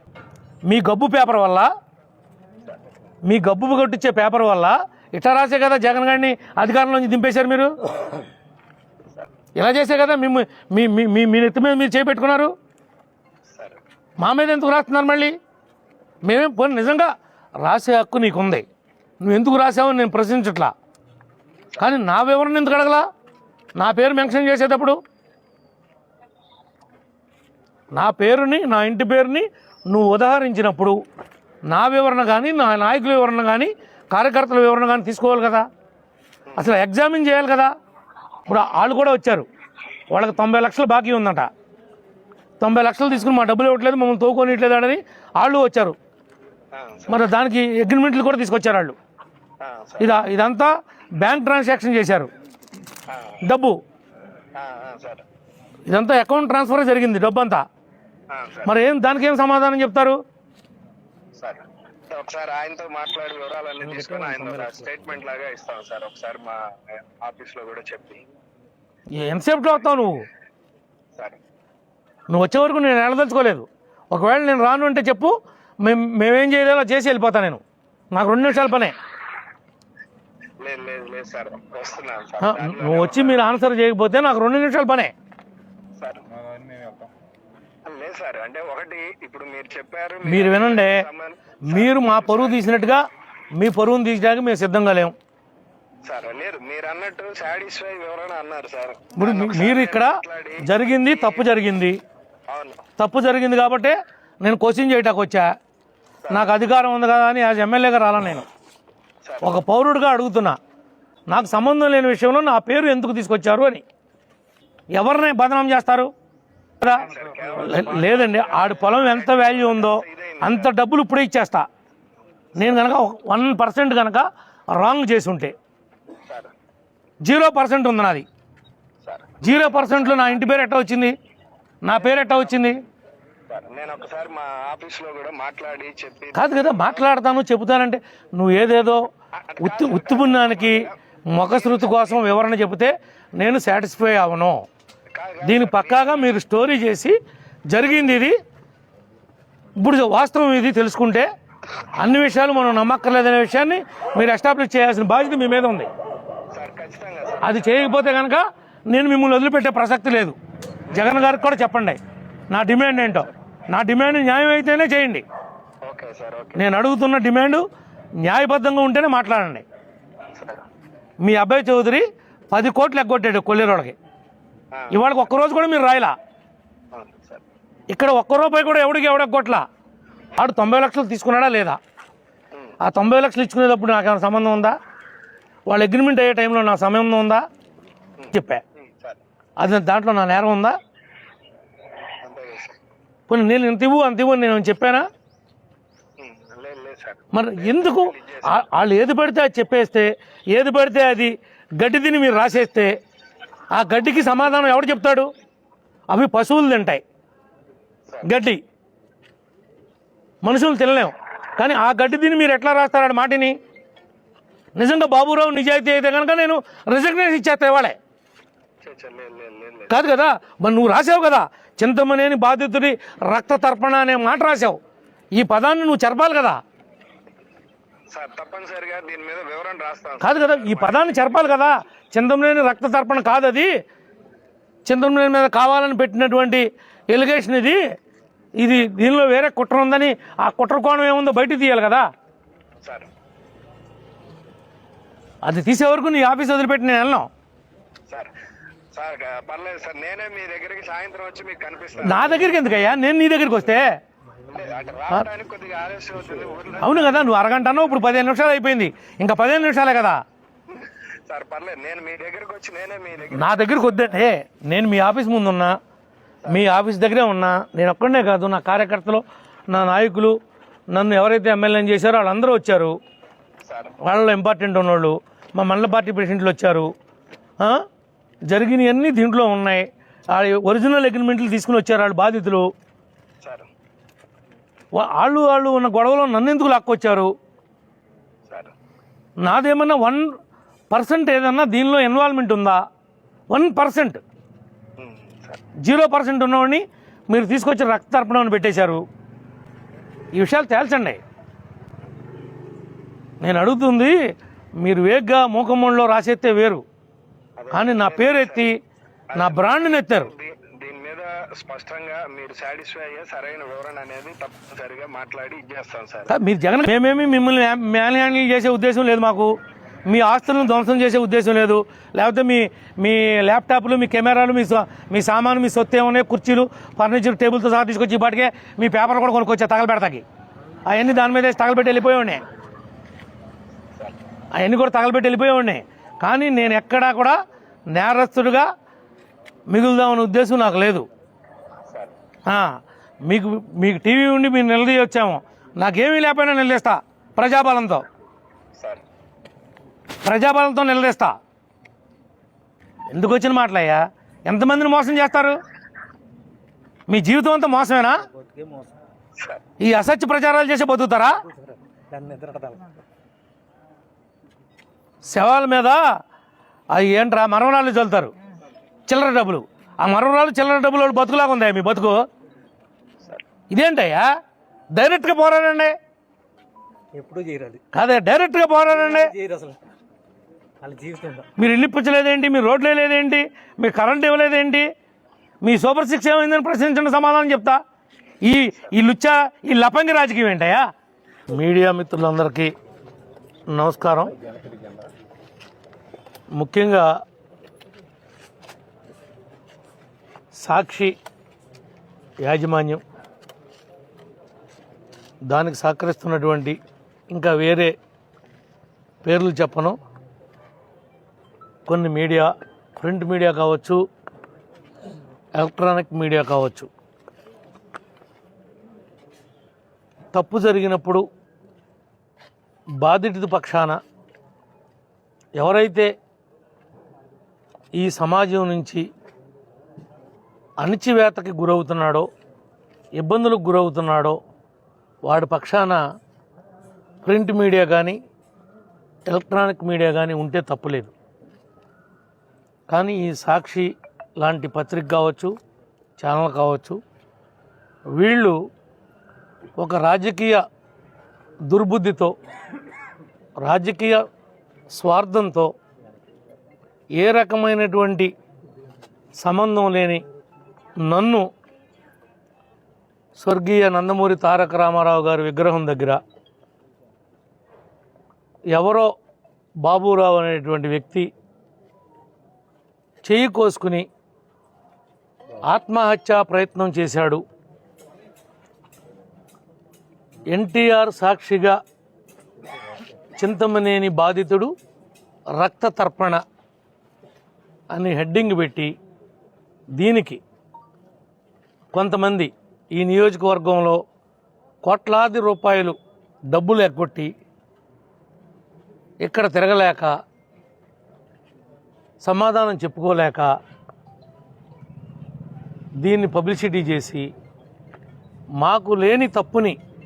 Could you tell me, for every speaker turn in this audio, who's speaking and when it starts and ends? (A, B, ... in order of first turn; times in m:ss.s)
0:00.7-0:01.7 A
0:03.2-0:07.7 A
0:09.6-0:12.5 A
0:13.5-0:13.8 B
0:14.2-0:15.4 A
0:16.2-0:18.6 A
0:19.2-0:20.7 A
0:21.8-0:23.1 A
0:23.8-0:25.0 A
0:27.9-0:31.0 A
0:31.7-0:35.7 A
0:36.6-0:37.7 A
0:38.5-0:39.5 A
0:40.1-0:41.5 A
0:42.6-0:46.0 A
0:46.7-0:47.3 B
0:47.1-0:49.0 A
0:49.6-0:50.1 B
0:50.0-0:52.3 A
0:53.1-0:53.4 B
0:53.4-0:53.8 A
0:54.6-0:55.2 B
0:55.9-0:57.6 A
0:58.3-0:58.7 B
0:58.6-1:00.2 A
1:01.4-1:08.2 B
1:03.8-1:04.9 C
1:09.1-1:10.2 A
1:12.3-1:17.6 A
1:18.1-1:19.0 A
1:20.6-1:23.4 B
1:22.4-1:25.1 A
1:26.0-1:26.2 B
1:27.9-1:32.7 B
1:30.3-1:31.0 A
1:31.6-1:35.1 A
1:36.0-1:41.4 B
1:39.2-1:42.0 A
1:42.5-1:42.8 B
1:43.0-1:45.6 A
1:46.2-1:46.6 B
1:46.3-1:48.5 A
1:49.2-1:49.6 B
1:49.4-1:50.6 A
1:51.3-1:53.8 A
1:54.9-1:56.1 A
1:56.8-2:01.7 A
1:56.9-2:00.7 B
2:02.6-2:05.5 A
2:06.3-2:06.5 B
2:07.2-2:08.3 A
2:09.0-2:10.4 B
2:09.4-2:11.2 A
2:11.8-2:12.8 A
2:13.5-2:17.0 B
2:16.4-2:19.1 A
2:19.3-2:22.2 B
2:19.6-2:24.6 A
2:25.1-2:26.4 B
2:25.4-2:27.2 A
2:27.7-2:28.4 A
2:29.8-2:31.3 A
2:31.9-2:35.9 A
2:36.5-2:38.1 B
2:37.4-2:40.4 A
2:40.9-2:42.0 A
2:40.9-2:41.2 B
2:42.5-2:45.2 A
2:45.8-2:46.6 B
2:46.6-2:47.7 A
2:48.2-2:49.6 A
2:50.4-2:50.6 B
2:51.2-2:54.0 A
2:54.7-2:55.0 B
2:54.9-2:56.1 A
2:56.9-2:57.4 B
2:57.9-2:59.6 A
3:00.4-3:01.8 A
3:02.8-3:04.8 A
3:05.7-3:07.4 A
3:08.2-3:09.2 B
3:08.3-3:08.6 A
3:09.6-3:10.8 A
3:12.2-3:12.8 B
3:13.3-3:15.1 A
3:16.2-3:18.6 B
3:17.3-3:23.0 A
3:23.7-3:25.3 A
3:26.1-3:27.0 A
3:28.2-3:28.6 A
3:30.4-3:33.6 A
3:34.8-3:38.0 A
3:38.8-3:40.0 B
3:39.9-3:44.8 A
3:45.3-3:46.6 A
3:48.1-3:51.5 B
3:50.2-3:53.7 A
3:54.9-3:57.8 A
3:58.6-4:02.1 A
4:02.8-4:03.1 B
4:05.4-4:07.3 A
4:08.9-4:12.5 B
4:12.0-4:13.9 A
4:14.5-4:17.2 B
4:16.8-4:20.2 A
4:21.3-4:24.2 B
4:23.4-4:25.8 A
4:26.5-4:30.4 A
4:30.9-4:33.0 A
4:33.6-4:33.9 B
4:34.0-4:36.9 A
4:37.6-4:37.8 A
4:38.5-4:42.7 A
4:43.4-4:43.7 B
4:44.9-4:47.3 A
4:49.4-4:50.3 A
4:50.9-4:52.8 A
4:53.5-4:54.2 A
4:55.0-4:55.6 B
4:55.8-4:59.0 A
5:00.3-5:01.2 A
5:03.4-5:04.2 A
5:04.8-5:06.8 A
5:07.6-5:08.7 B
5:07.7-5:08.8 A
5:09.3-5:16.3 B
5:09.4-5:10.3 A
5:16.3-5:19.6 A
5:20.1-5:30.2 A
5:30.9-5:32.4 A
5:34.5-5:37.4 A
5:37.9-5:38.7 A
5:39.7-5:41.1 A
5:42.5-5:48.0 A
5:48.8-5:49.0 B
5:50.2-5:51.4 A
5:53.1-5:55.6 A
5:57.1-5:58.2 A
5:58.3-5:58.9 C
5:59.8-6:01.4 A
6:01.4-6:02.9 C
6:05.3-6:06.0 A
6:06.9-6:08.3 A
6:09.1-6:12.2 A
6:13.7-6:14.3 A
6:14.9-6:16.0 A
6:17.2-6:17.8 C
6:17.9-6:19.3 A
6:18.9-6:19.8 C
6:20.8-6:21.5 C
6:21.6-6:24.9 A
6:25.6-6:27.8 A
6:28.4-6:30.9 A
6:31.5-6:32.7 A
6:33.7-6:34.3 A
6:36.5-6:37.2 A
6:40.6-6:41.2 A
6:42.4-6:43.0 A
6:45.5-6:46.8 A
6:47.3-6:47.9 A
6:49.2-6:50.0 A
6:51.9-6:54.0 A
6:55.6-6:56.9 A
7:00.3-7:01.2 A
7:03.0-7:04.0 A
7:05.6-7:06.1 A
7:08.0-7:09.0 A
7:10.8-7:12.3 A
7:13.2-7:14.4 A
7:15.3-7:16.0 A
7:17.2-7:18.2 A
7:19.3-7:21.1 A
7:22.9-7:25.5 A
7:26.2-7:27.0 A
7:28.2-7:28.6 A
7:29.8-7:30.6 A
7:31.7-7:32.3 A
7:33.6-7:34.2 A
7:34.9-7:35.7 A
7:37.2-7:38.3 A
7:39.4-7:40.2 A
7:41.1-7:41.5 A
7:43.4-7:46.2 A
7:48.7-7:49.1 A
7:49.8-7:51.3 A
7:53.2-7:54.1 A
7:55.7-7:57.4 A
8:00.5-8:01.8 A
8:03.4-8:04.7 A
8:05.6-8:06.4 A
8:07.9-8:08.9 A
8:10.0-8:10.4 A
8:11.9-8:14.0 A
8:14.8-8:16.0 A
8:16.5-8:17.3 A
8:19.2-8:20.1 A
8:22.2-8:23.5 A
8:26.0-8:27.3 A
8:28.6-8:29.8 A